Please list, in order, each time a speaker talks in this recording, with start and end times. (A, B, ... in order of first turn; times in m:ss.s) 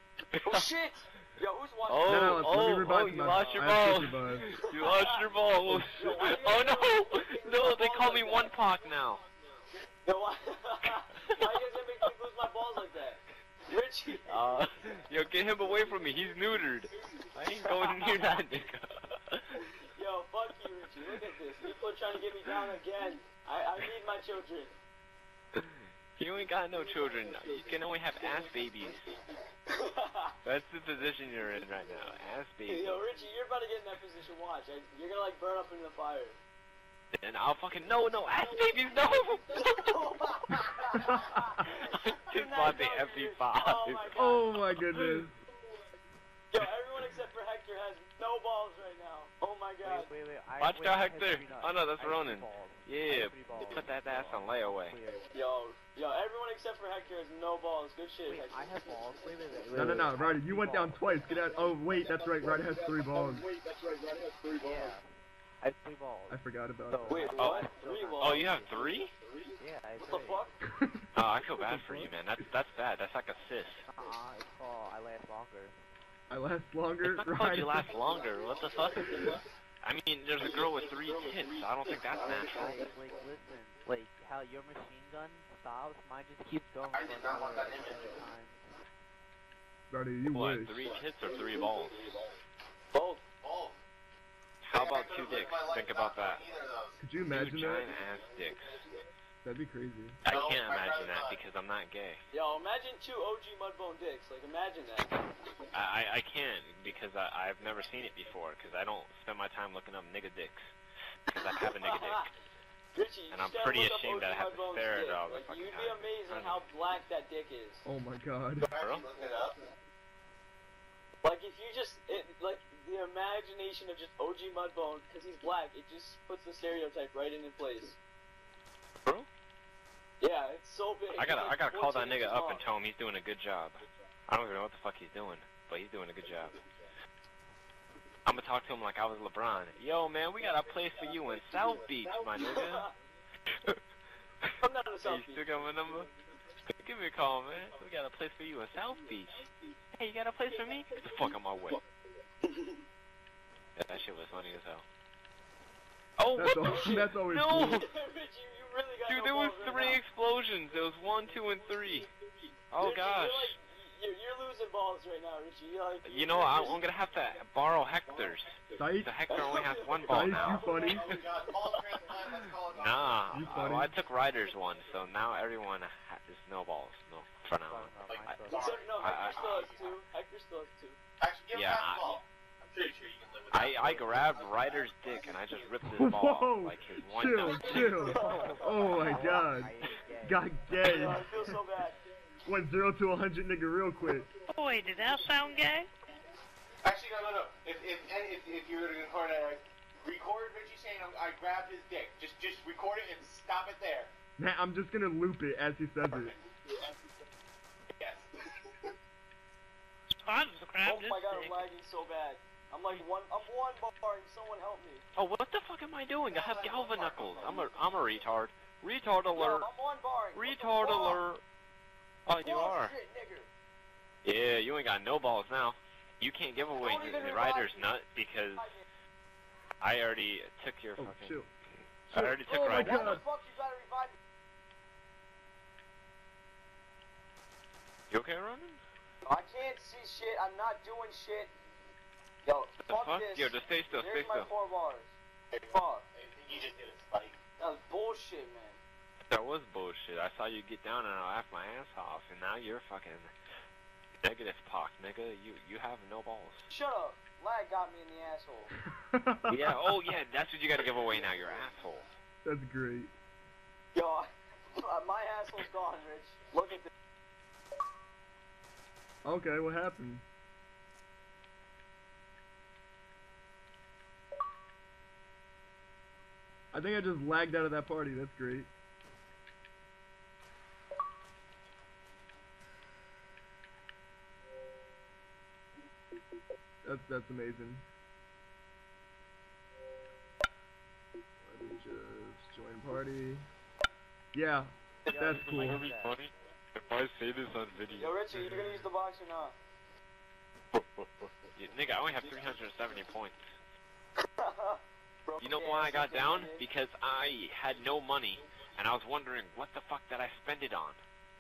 0:00.3-0:00.6 A
0:00.4-0:02.5 B
0:01.9-0:09.2 A
0:02.1-0:04.5 C
0:03.3-0:03.8 D
0:04.6-0:05.3 B
0:05.7-0:06.0 C
0:05.9-0:08.6 B
0:10.0-0:14.5 B
0:11.2-0:11.5 A
0:14.2-0:19.7 A
0:17.6-0:18.0 B
0:19.9-0:24.7 B
0:25.5-0:29.1 A
0:29.7-0:30.4 B
0:30.4-0:33.0 A
0:32.7-0:36.4 B
0:37.1-0:40.0 A
0:39.6-0:44.5 B
0:41.6-0:44.2 A
0:44.2-0:45.3 C
0:44.8-0:45.2 A
0:46.5-0:50.1 B
0:49.8-0:55.3 D
0:50.6-0:55.0 A
0:55.3-0:58.6 B
0:58.2-1:01.2 D
0:59.7-1:03.4 C
1:03.1-1:04.9 E
1:04.6-1:05.1 D
1:05.6-1:08.8 D
1:06.3-1:07.3 C
1:07.1-1:08.5 B
1:07.4-1:07.7 A
1:08.2-1:09.1 A
1:09.6-1:10.5 D
1:10.1-1:10.6 B
1:10.6-1:12.1 C
1:11.1-1:13.9 A
1:13.9-1:15.8 D
1:16.3-1:17.9 C
1:17.0-1:22.9 A
1:18.2-1:19.4 E
1:20.4-1:22.9 E
1:22.2-1:28.8 D
1:26.9-1:28.2 E
1:29.9-1:30.8 C
1:30.3-1:32.1 A
1:31.3-1:32.1 E
1:32.9-1:33.2 B
1:33.4-1:33.8 E
1:34.6-1:36.4 A
1:34.7-1:37.0 E
1:37.0-1:37.9 C
1:37.3-1:38.9 A
1:39.4-1:40.2 C
1:40.2-1:41.4 E
1:40.2-1:42.2 A
1:42.3-1:45.2 B
1:45.7-1:50.7 A
1:51.3-1:52.3 A
1:51.4-1:52.3 B
1:52.9-1:57.9 B
1:53.3-1:56.6 A
1:57.8-1:58.7 C
1:58.6-1:59.6 E
1:58.8-1:59.0 A
2:01.2-2:08.0 B
2:10.2-2:12.6 B
2:11.1-2:16.6 A
2:18.2-2:22.9 A
2:20.6-2:22.3 E
2:22.4-2:22.9 B
2:23.5-2:23.8 A
2:24.4-2:26.1 A
2:24.6-2:25.4 B
2:26.7-2:31.8 A
2:32.4-2:32.8 B
2:33.8-2:34.8 A
2:36.2-2:37.9 A
2:36.4-2:37.8 C
2:36.6-2:40.0 B
2:39.1-2:42.1 A
2:42.7-2:43.6 A
2:42.8-2:46.8 B
2:46.0-2:51.2 A
2:48.1-2:48.4 E
2:48.8-2:49.1 C
2:49.3-2:51.2 B
2:50.1-2:51.0 C
2:50.6-2:53.7 E
2:52.8-2:58.4 A
2:53.3-2:53.9 C
2:57.7-2:58.8 D
2:58.1-3:00.0 E
2:58.5-3:01.0 B
2:59.0-2:59.7 A
3:01.2-3:05.7 E
3:01.5-3:02.2 A
3:03.5-3:08.1 A
3:05.8-3:11.6 C
3:07.6-3:08.6 B
3:08.0-3:11.1 D
3:09.1-3:09.4 B
3:10.8-3:12.0 B
3:12.4-3:14.3 C
3:14.5-3:15.9 F
3:16.8-3:24.1 E
3:24.4-3:26.3 C
3:26.1-3:26.9 E
3:28.0-3:28.9 E
3:30.1-3:31.6 F
3:30.8-3:35.0 B
3:35.1-3:39.7 A
3:36.3-3:37.8 E
3:39.3-3:41.2 B
3:40.3-3:41.4 A
3:42.3-3:42.9 A
3:42.4-3:43.5 B
3:44.2-3:48.7 A
3:46.8-3:47.9 B
3:48.5-3:48.8 B
3:49.8-3:51.4 A
3:51.0-3:51.5 C
3:52.1-3:53.2 A
3:52.1-3:53.2 C
3:52.5-3:54.2 B
3:58.1-3:58.8 A
3:59.2-4:01.5 B
4:02.4-4:05.1 B
4:02.8-4:04.5 A
4:05.5-4:07.4 E
4:05.7-4:06.0 B
4:07.6-4:08.8 B
4:09.3-4:13.3 A
4:14.2-4:16.7 A
4:16.7-4:18.7 B
4:18.8-4:20.0 C
4:19.5-4:22.1 A
4:22.4-4:23.1 C
4:23.9-4:26.9 B
4:29.2-4:30.2 C
4:36.7-4:38.7 C
4:46.8-4:47.8 C
4:51.4-4:53.4 C
4:54.3-4:55.8 C
4:55.0-4:56.2 D
4:55.4-4:58.2 A
4:58.0-4:59.5 B
4:58.3-4:58.9 C
5:00.7-5:03.4 A
5:04.2-5:06.6 B
5:05.4-5:11.0 A